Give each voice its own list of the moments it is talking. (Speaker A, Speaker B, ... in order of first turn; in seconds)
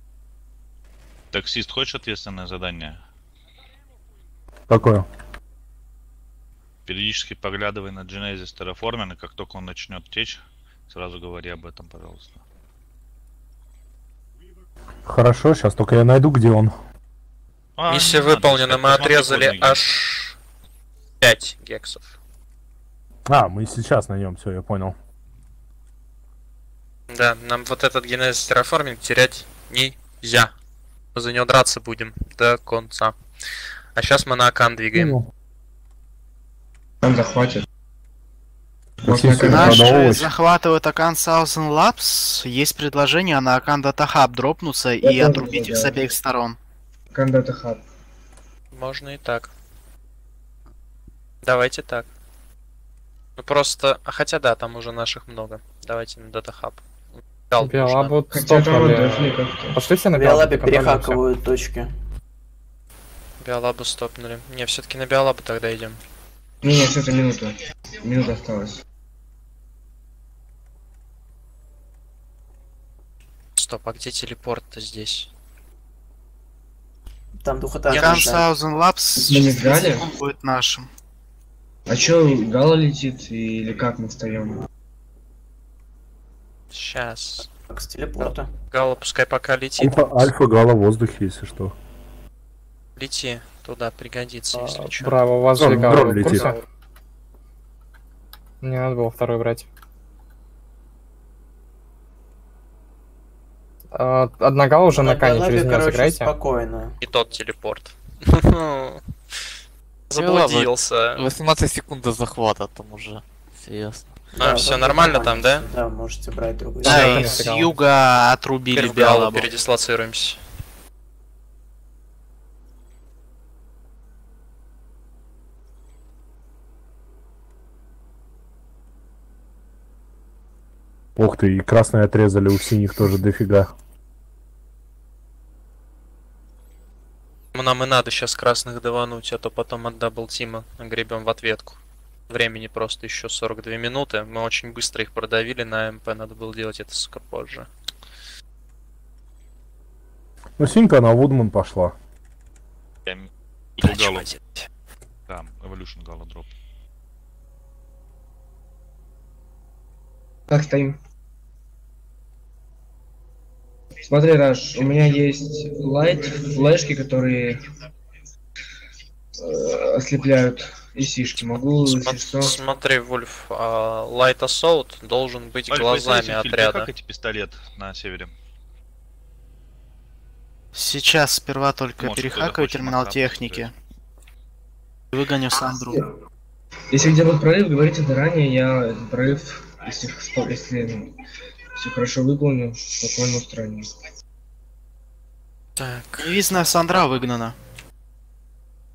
Speaker A: 1.3-3.0, 6.9-12.4, 17.8-19.8, 153.1-154.3, 155.3-156.5, 175.7-178.3, 182.0-183.7
Speaker B: 4.7-5.1, 15.1-16.7, 23.3-24.9, 34.9-35.2, 39.0-40.3, 89.8-91.7, 95.6-96.5, 131.2-133.7, 150.6-151.9
Speaker C: 17.9-20.4, 21.2-22.1, 27.1-30.5, 31.1-33.1, 34.0-35.2, 48.7-49.5, 51.4-52.1, 53.4-56.8, 57.5-58.1, 63.4-66.0, 73.5-75.3, 77.9-78.3, 86.7-87.5, 88.7-90.0, 93.0-96.5, 107.0-109.0, 110.1-111.2, 114.4-115.7, 116.8-117.3, 118.7-120.4, 137.5-147.7, 153.8-154.7, 171.9-176.9, 195.8-196.4
Speaker D: 37.0-37.6, 39.0-39.9, 45.0-46.0, 47.1-47.8, 58.3-59.8, 66.6-68.8, 79.2-80.0, 81.9-84.6, 160.5-161.0, 164.0-167.6, 169.4-172.6, 186.9-191.1, 191.8-193.9
Speaker E: 39.4-46.6, 77.9-80.9, 116.8-119.5, 180.7-183.7, 185.1-186.0, 196.2-197.5
Speaker F: 57.6-61.2, 94.5-96.6, 98.6-99.7, 103.9-106.3, 116.9-117.7
Speaker G: 60.1-61.9, 77.4-78.5, 87.7-88.5, 104.9-107.0, 114.4-117.4
Speaker H: 110.2-114.1